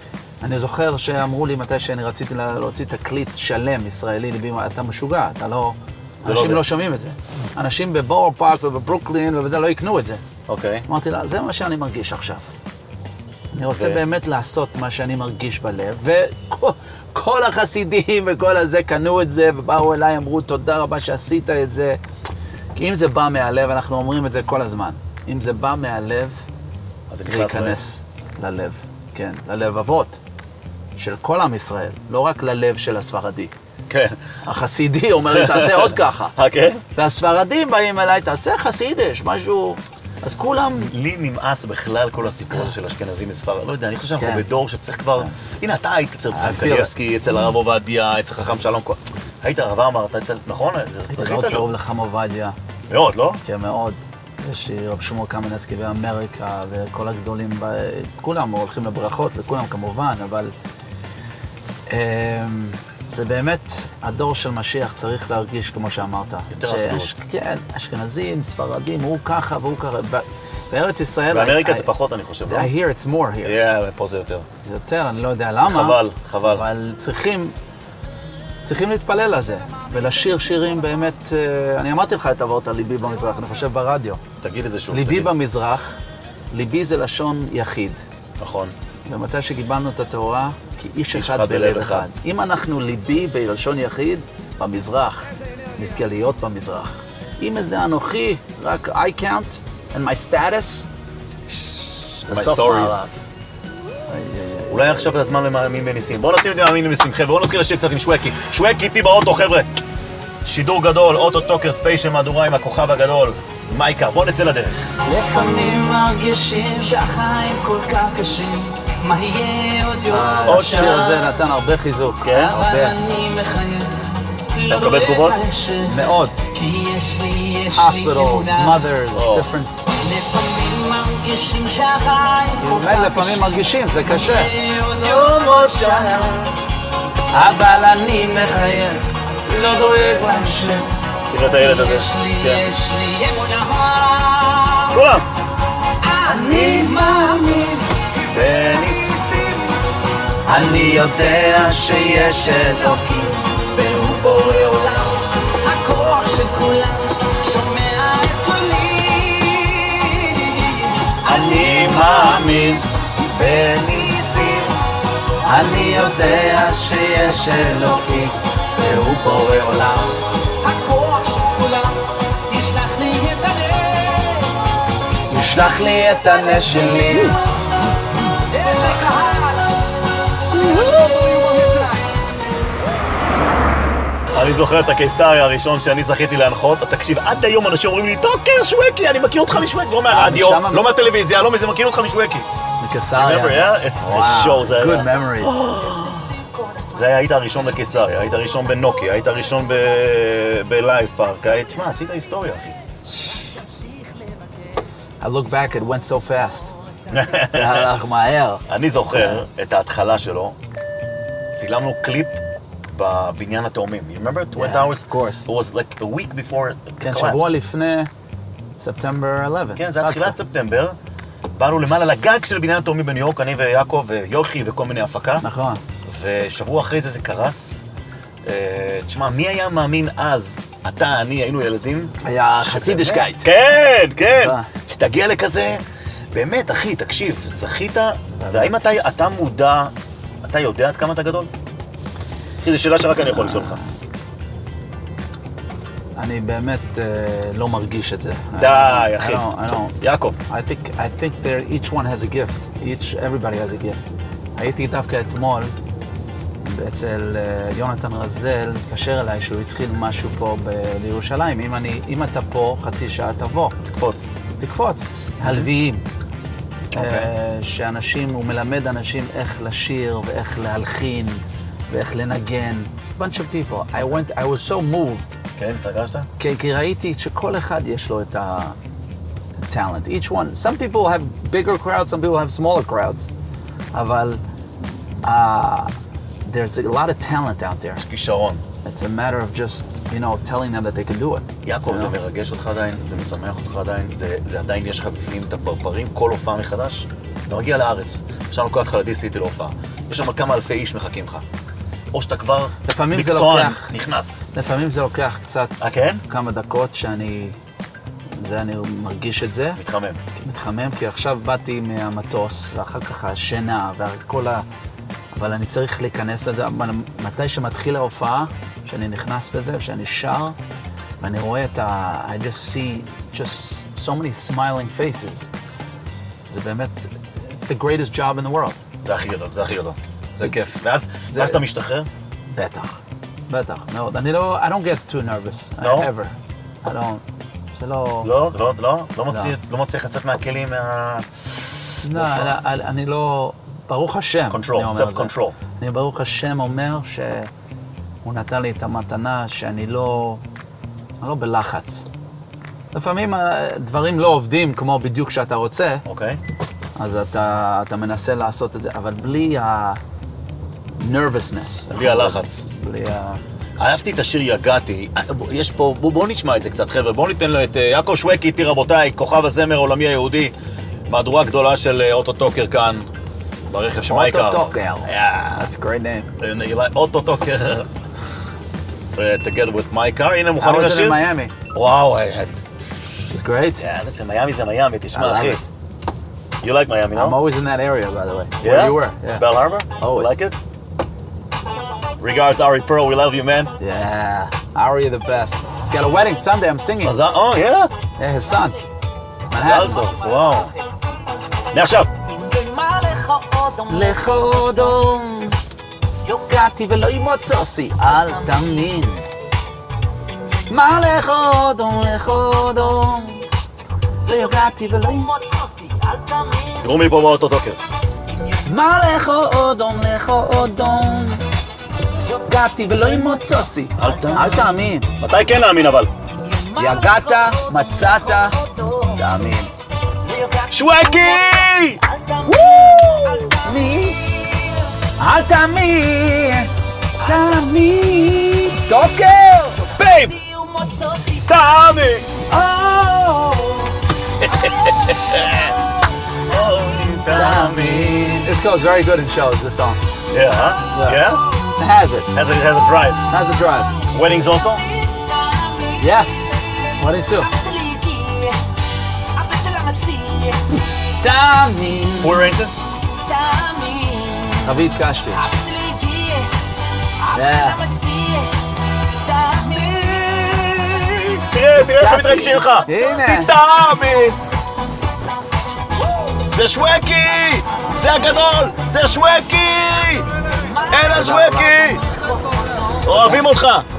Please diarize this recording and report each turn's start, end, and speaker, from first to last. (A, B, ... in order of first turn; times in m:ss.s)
0:00.4-0:10.2 A
0:06.2-0:06.6 B
0:10.5-0:10.8 B
0:10.9-0:12.5 A
0:13.5-0:22.0 A
0:13.7-0:14.0 B
0:22.7-0:26.4 A
0:27.1-0:27.8 B
0:27.3-0:30.2 A
0:31.0-0:33.5 A
0:33.9-0:34.2 B
0:34.4-0:36.3 A
0:35.3-0:36.8 B
0:36.9-0:40.9 A
0:40.8-0:51.7 B
0:44.2-0:44.4 A
0:46.3-0:46.9 A
0:51.1-0:52.6 A
0:52.9-0:53.4 B
0:53.4-1:00.5 A
1:01.9-1:11.9 A
1:06.5-1:07.2 B
1:11.3-1:12.7 B
1:12.4-1:13.6 A
1:13.4-1:14.4 B
1:14.6-1:17.5 A
1:15.6-1:16.6 B
1:18.6-1:24.2 A
1:24.4-1:25.3 B
1:24.9-1:26.0 A
1:26.5-1:28.0 A
1:28.4-1:28.7 B
1:29.0-1:40.9 A
1:31.1-1:32.1 B
1:41.5-1:43.1 B
1:42.3-1:43.1 A
1:44.1-1:45.2 A
1:44.7-1:49.7 B
1:50.4-1:54.9 B
1:55.0-1:57.0 A
1:55.1-1:56.1 C
1:56.7-2:01.0 C
2:00.1-2:03.0 A
2:00.4-2:01.4 B
2:02.2-2:02.6 B
2:02.5-2:08.8 C
2:04.7-2:05.4 B
2:05.8-2:06.4 A
2:07.7-2:09.9 A
2:09.1-2:09.5 B
2:09.9-2:16.5 C
2:12.6-2:14.5 A
2:17.3-2:20.9 A
2:21.3-2:22.6 B
2:21.5-2:24.9 C
2:22.3-2:22.7 A
2:24.9-2:25.2 B
2:26.0-2:29.8 C
2:26.2-2:27.4 A
2:28.3-2:29.2 B
2:30.4-2:33.3 A
2:30.5-2:44.7 C
2:34.3-2:34.9 A
2:41.2-2:42.9 B
2:43.5-2:44.3 B
2:45.4-2:50.1 A
2:45.5-2:46.8 C
2:50.6-2:54.6 C
2:55.3-2:57.4 A
2:55.9-2:57.4 C
2:58.4-2:59.8 C
3:00.5-3:02.1 C
3:04.3-3:12.5 B
3:10.1-3:10.9 A
3:12.8-3:15.7 A
3:13.1-3:16.3 B
3:15.6-3:17.0 C
3:16.9-3:22.8 B
3:23.4-3:24.5 C
3:25.2-3:26.7 A
3:27.1-3:27.9 B
3:27.5-3:29.4 A
3:28.7-3:30.6 B
3:31.5-3:32.4 B
3:32.9-3:37.5 B
3:34.5-3:35.5 A
3:37.0-3:38.1 A
3:38.8-3:40.4 A
3:39.8-3:41.0 B
3:41.6-3:45.4 B
3:45.4-3:45.8 A
3:46.0-3:47.8 B
3:48.4-3:55.8 B
3:52.2-3:53.5 A
3:54.4-3:54.7 A
3:56.3-4:01.5 B
3:58.4-3:58.9 A
4:02.6-4:03.8 B
4:03.1-4:03.9 A
4:06.2-4:09.9 A
4:08.6-4:10.4 B
4:10.5-4:14.0 A
4:14.6-4:15.7 A
4:16.6-4:23.8 A
4:23.9-4:24.3 B
4:24.6-4:26.0 A
4:25.4-4:25.7 B
4:26.9-4:27.3 B
4:26.9-4:35.3 A
4:35.6-4:36.3 B
4:36.4-4:38.8 A
4:39.6-4:43.3 A
4:43.9-4:44.4 A
4:45.2-4:45.9 A
4:46.4-4:48.0 A
4:48.0-4:48.6 B
4:48.8-4:52.1 A
4:51.6-5:01.4 B
5:02.1-5:04.5 B
5:02.8-5:03.9 A
5:04.5-5:07.6 A
5:05.8-5:06.2 B
5:08.3-5:09.8 A
5:09.8-5:10.2 B
5:10.4-5:14.6 A
5:15.3-5:20.6 A
5:21.2-5:25.5 A
5:26.5-5:28.8 A
5:29.0-5:32.1 B
5:31.3-5:31.6 A
5:32.5-5:37.2 A
5:35.8-5:36.1 B
5:37.7-5:38.3 A
5:38.2-5:42.6 B
5:42.0-5:47.5 A
5:44.5-5:45.6 B
5:48.2-5:50.4 A
5:51.2-5:52.1 A
5:52.9-5:56.0 A
5:56.0-5:56.4 B
5:57.0-6:00.0 A
6:01.0-6:03.4 A
6:01.9-6:02.7 B
6:03.8-6:10.5 B
6:11.1-6:13.1 B
6:13.7-6:15.7 B
6:14.0-6:16.3 A
6:16.4-6:17.9 B
6:19.2-6:22.5 B
6:20.6-6:21.5 A
6:23.3-6:23.8 A
6:23.8-6:25.6 B
6:25.1-6:25.6 A
6:26.6-6:27.4 B
6:27.1-6:30.3 A
6:28.6-6:30.6 B
6:32.2-6:33.7 B
6:33.8-6:37.2 A
6:37.0-6:37.9 B
6:38.2-6:38.8 A
6:38.4-6:38.8 C
6:39.5-6:40.0 A
6:39.5-6:40.7 B
6:39.6-6:40.9 C
6:41.7-6:42.1 B
6:42.2-6:45.1 C
6:43.9-6:45.6 A
6:46.3-6:49.2 A
6:48.0-6:49.0 C
6:50.3-6:51.0 C
6:50.7-6:53.4 A
6:52.3-6:52.7 C
6:54.2-6:55.3 A
6:54.2-6:57.0 C
6:56.8-6:57.8 B
6:58.3-6:58.9 C
6:58.6-7:01.4 A
7:02.2-7:04.7 C
7:02.4-7:05.1 A
7:04.0-7:06.1 B
7:06.3-7:09.3 C
7:06.8-7:08.6 A
7:09.1-7:09.7 A
7:10.2-7:15.0 C
7:10.7-7:12.0 B
7:12.5-7:14.2 A
7:15.2-7:19.9 A
7:17.2-7:17.7 C
7:19.5-7:21.5 C
7:20.0-7:20.3 B
7:21.4-7:22.3 B
7:22.5-7:25.5 C
7:24.4-7:25.7 B
7:26.5-7:28.5 B
7:27.3-7:30.0 A
7:30.3-7:31.4 B
7:30.9-7:31.2 A
7:31.8-7:32.3 A
7:32.3-7:33.2 B
7:33.3-7:34.0 A
7:34.1-7:34.8 B
7:34.5-7:38.6 C
7:36.0-7:36.4 A
7:37.0-7:37.5 A
7:39.3-7:40.8 C
7:41.2-7:42.5 A
7:42.2-7:42.8 B
7:43.2-7:46.6 C
7:44.6-7:45.4 A
7:47.2-7:51.4 C
7:47.3-7:47.8 A
7:51.4-7:54.4 B
7:52.0-7:53.5 A
7:52.8-7:53.2 C
7:56.5-8:00.3 B
8:00.4-8:03.4 C
8:00.9-8:02.0 B
8:01.1-8:01.7 A
8:03.0-8:03.8 B
8:03.1-8:03.5 A